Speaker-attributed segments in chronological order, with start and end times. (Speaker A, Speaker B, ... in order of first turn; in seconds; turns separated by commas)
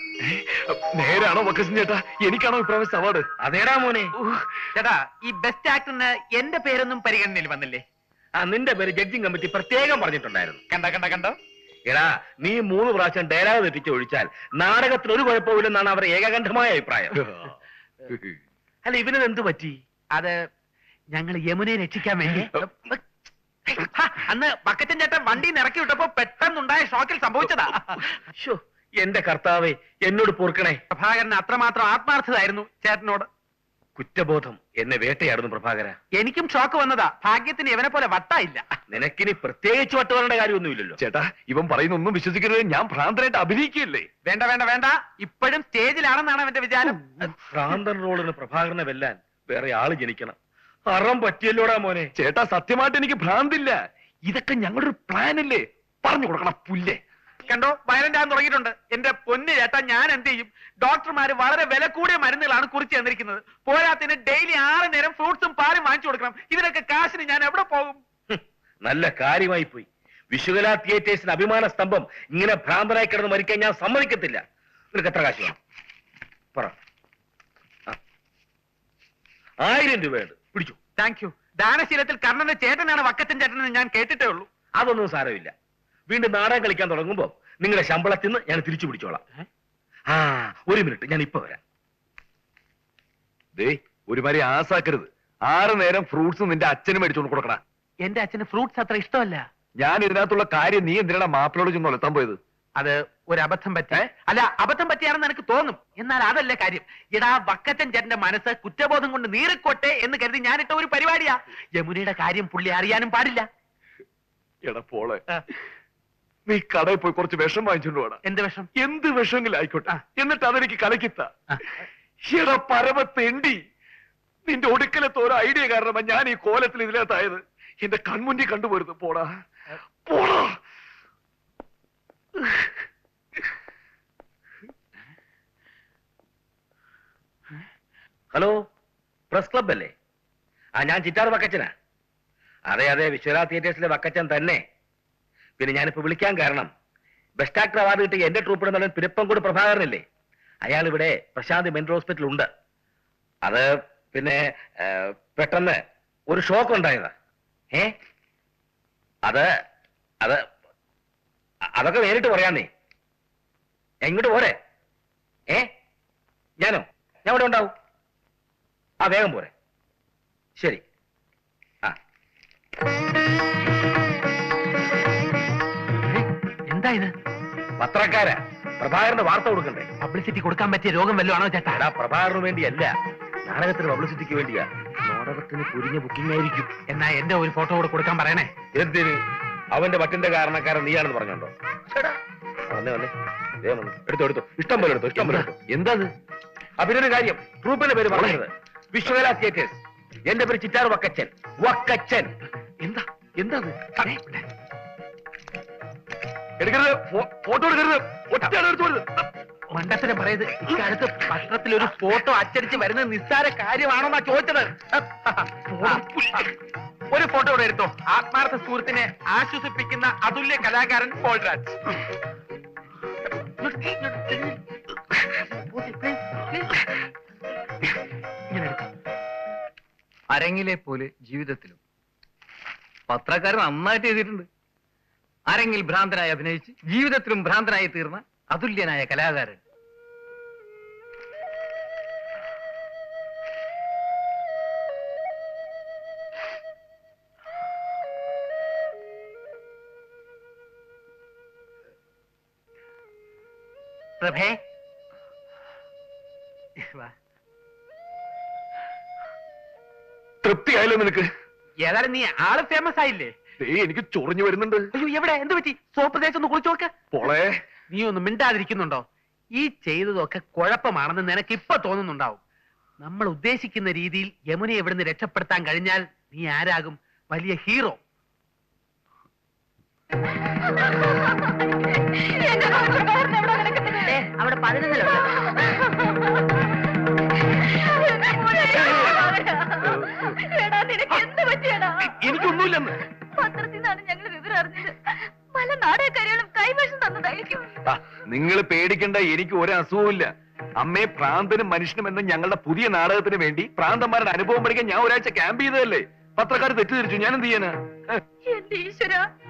Speaker A: 0.2-3.2, Speaker B: 3.4-4.1, Speaker C: 4.7-7.8, Speaker B: 8.4-10.6, Speaker C: 10.7-11.3, Speaker B: 11.9-17.1, Speaker A: 17.2-17.5, Speaker A: 18.1-18.4, Speaker B: 18.8-19.8, Speaker C: 21.1-22.9, Speaker C: 23.7-27.8, Speaker B: 28.3-30.8, Speaker C: 30.9-33.3, Speaker B: 34.0-36.0, Speaker C: 36.2-38.6, Speaker B: 38.9-41.0, Speaker A: 41.0-44.1, Speaker C: 44.2-47.0, Speaker B: 47.2-50.4, Speaker B: 50.9-52.1, Speaker A: 52.1-57.0, Speaker C: 57.5-68.0, Speaker B: 68.3-74.4, Speaker B: 74.9-75.6, Speaker B: 79.6-80.8, Speaker C: 81.0-84.5, Speaker B: 84.8-85.5, Speaker B: 86.1-89.2, Speaker B: 90.1-91.6, Speaker A: 93.5-97.6, Speaker C: 98.0-99.4, Speaker A: 99.8-102.4, Speaker C: 102.8-113.5, Speaker A: 114.6-115.2, Speaker A: 116.5-118.2, Speaker C: 118.2-118.7, Speaker A: 118.8-121.3, Speaker A: 122.2-123.6, Speaker A: 124.5-129.3, Speaker A: 130.1-130.6, Speaker B: 139.3-139.9, Speaker B: 140.8-141.7, Speaker B: 142.7-144.6, Speaker B: 145.6-146.7, Speaker B: 147.4-150.0, Speaker B: 150.6-152.5, Speaker B: 153.4-155.8, Speaker B: 156.3-157.1, Speaker B: 161.8-162.7, Speaker B: 164.0-164.6, Speaker B: 166.6-167.7, Speaker B: 169.0-169.5, Speaker C: 176.1-177.1, Speaker B: 177.8-179.9, Speaker C: 180.0-181.8, Speaker B: 181.7-182.9, Speaker B: 183.4-186.7, Speaker C: 186.9-188.5, Speaker B: 188.7-189.2, Speaker B: 189.7-192.1, Speaker B: 192.7-193.1, Speaker B: 193.6-195.6, Speaker A: 195.2-196.1, Speaker B: 196.8-202.3, Speaker A: 198.1-198.4, Speaker A: 202.8-203.9, Speaker C: 204.0-204.4, Speaker A: 206.6-209.1, Speaker C: 209.7-216.4, Speaker A: 215.8-216.1, Speaker C: 217.1-221.8, Speaker C: 223.6-224.6, Speaker C: 225.4-226.6, Speaker C: 228.5-228.9, Speaker D: 230.3-231.8, Speaker D: 233.1-234.5, Speaker D: 235.5-239.6, Speaker C: 254.2-254.6, Speaker A: 260.4-261.3, Speaker C: 261.8-263.3, Speaker A: 263.6-264.8, Speaker C: 264.9-266.9, Speaker A: 267.1-267.5, Speaker C: 267.9-269.0, Speaker C: 269.6-272.4, Speaker C: 273.0-278.0, Speaker E: 280.8-281.4, Speaker E: 282.0-284.3, Speaker E: 285.0-285.4, Speaker E: 287.8-292.6, Speaker A: 289.8-290.4, Speaker A: 292.0-293.0, Speaker E: 293.3-297.7, Speaker A: 297.9-308.2, Speaker E: 308.5-309.2